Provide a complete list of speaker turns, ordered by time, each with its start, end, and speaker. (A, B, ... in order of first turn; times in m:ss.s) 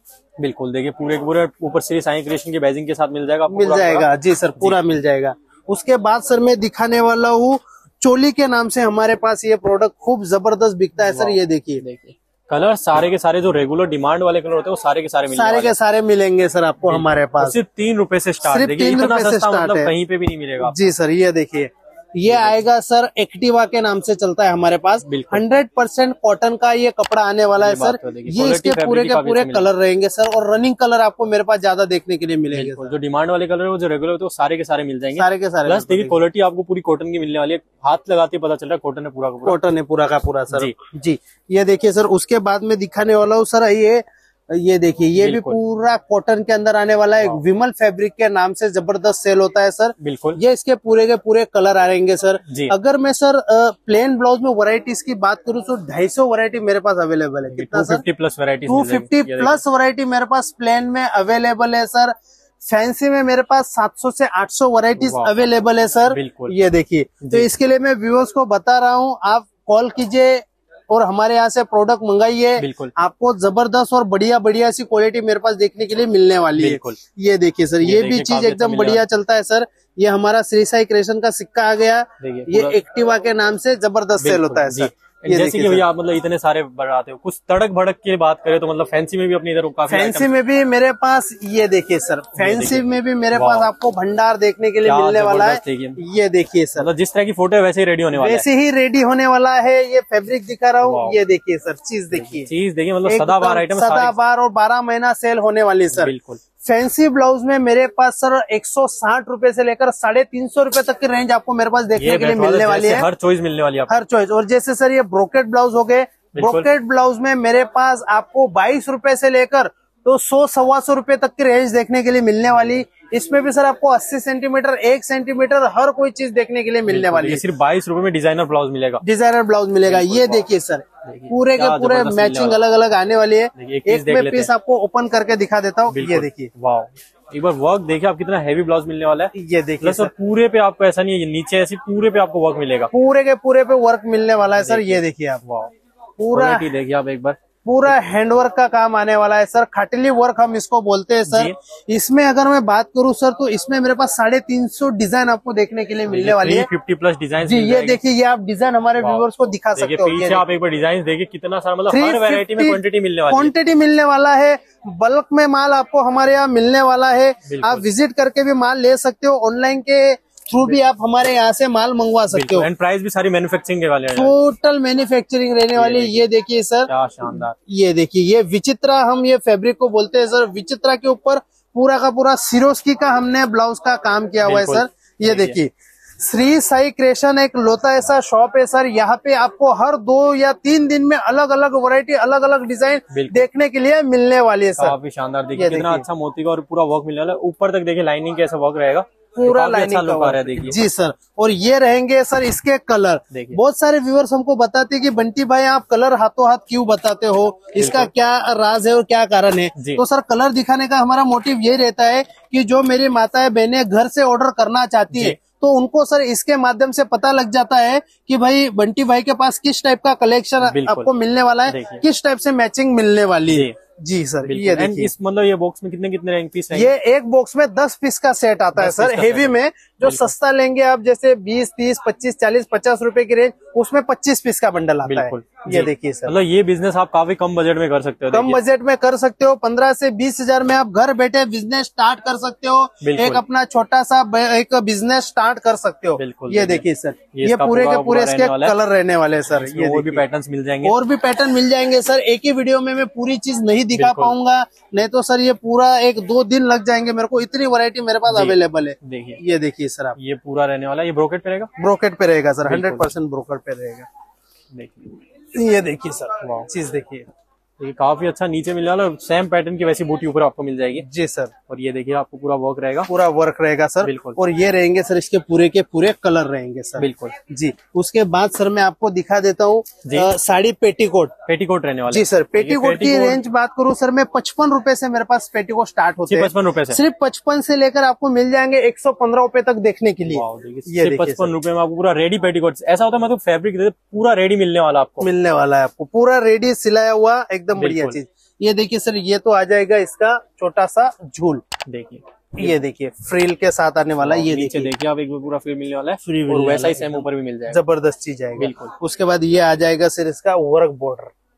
0:00.4-0:04.1 A
0:03.5-0:11.8 B
0:11.0-0:15.8 A
0:15.3-0:17.6 B
0:16.8-0:20.8 A
0:18.4-0:19.9 B
0:20.6-0:32.9 B
0:22.2-0:22.6 A
0:25.0-0:25.4 A
0:27.6-0:29.7 A
0:32.5-0:39.6 A
0:35.2-0:36.2 B
0:39.4-0:58.0 B
0:45.2-0:45.6 A
0:50.0-0:50.4 A
0:52.5-0:52.7 A
0:57.5-0:59.6 A
0:58.7-1:25.8 B
1:05.0-1:05.3 A
1:06.1-1:06.5 A
1:07.2-1:07.5 A
1:12.6-1:12.9 A
1:16.6-1:17.0 A
1:17.8-1:19.0 A
1:22.2-1:22.8 A
1:24.2-1:30.3 A
1:29.9-1:36.9 B
1:32.4-1:33.7 A
1:34.8-1:36.0 A
1:36.8-1:38.4 A
1:38.1-1:42.5 B
1:40.8-1:41.2 A
1:42.1-1:44.1 A
1:43.1-1:53.1 B
1:45.9-1:46.4 A
1:52.0-1:53.9 A
1:53.9-2:07.4 B
1:56.4-1:56.7 A
2:06.9-2:09.0 A
2:09.0-2:16.5 B
2:09.9-2:10.5 A
2:11.0-2:12.6 A
2:13.6-2:14.5 A
2:15.9-2:22.9 A
2:19.3-2:20.1 B
2:22.9-2:25.4 B
2:24.6-2:25.7 A
2:26.2-2:26.7 B
2:26.3-2:27.9 A
2:27.6-2:36.7 B
2:31.2-2:31.6 A
2:36.1-2:38.0 A
2:37.4-2:40.4 B
2:39.0-2:43.5 A
2:41.9-2:52.7 B
2:47.4-2:47.9 A
2:52.3-2:54.3 A
2:54.1-3:15.0 B
2:55.8-2:56.3 A
2:56.9-2:57.6 A
3:04.4-3:05.6 A
3:13.1-3:13.5 A
3:14.8-3:20.8 A
3:15.6-3:16.1 B
3:19.4-3:45.1 B
3:23.3-3:23.6 A
3:27.8-3:28.1 A
3:29.8-3:30.0 A
3:35.1-3:35.4 A
3:40.6-3:41.1 A
3:41.7-3:42.0 A
3:43.5-3:43.8 A
3:44.4-3:46.9 A
3:46.7-3:56.4 B
3:48.8-3:50.3 A
3:55.1-3:58.6 A
3:58.3-4:10.2 B
4:03.0-4:03.4 A
4:06.2-4:08.8 A
4:09.5-4:11.0 A
4:10.8-4:20.2 B
4:13.9-4:14.4 A
4:18.3-4:19.4 A
4:20.2-4:21.7 A
4:21.8-4:24.1 B
4:22.6-4:23.1 A
4:24.7-4:25.1 A
4:25.5-4:27.2 B
4:26.4-4:26.7 A
4:27.8-4:31.0 A
4:31.0-4:31.5 B
4:31.7-4:33.1 A
4:33.1-4:41.3 B
4:34.0-4:34.4 A
4:37.0-4:37.3 A
4:40.0-4:40.3 A
4:41.4-4:43.4 A
4:42.1-4:51.6 B
4:46.3-4:47.0 A
4:50.3-4:55.3 A
4:55.2-5:01.6 B
4:57.8-4:58.2 A
5:01.9-5:02.8 A
5:02.6-5:04.9 B
5:04.2-5:07.8 A
5:06.2-5:11.3 B
5:08.6-5:08.9 A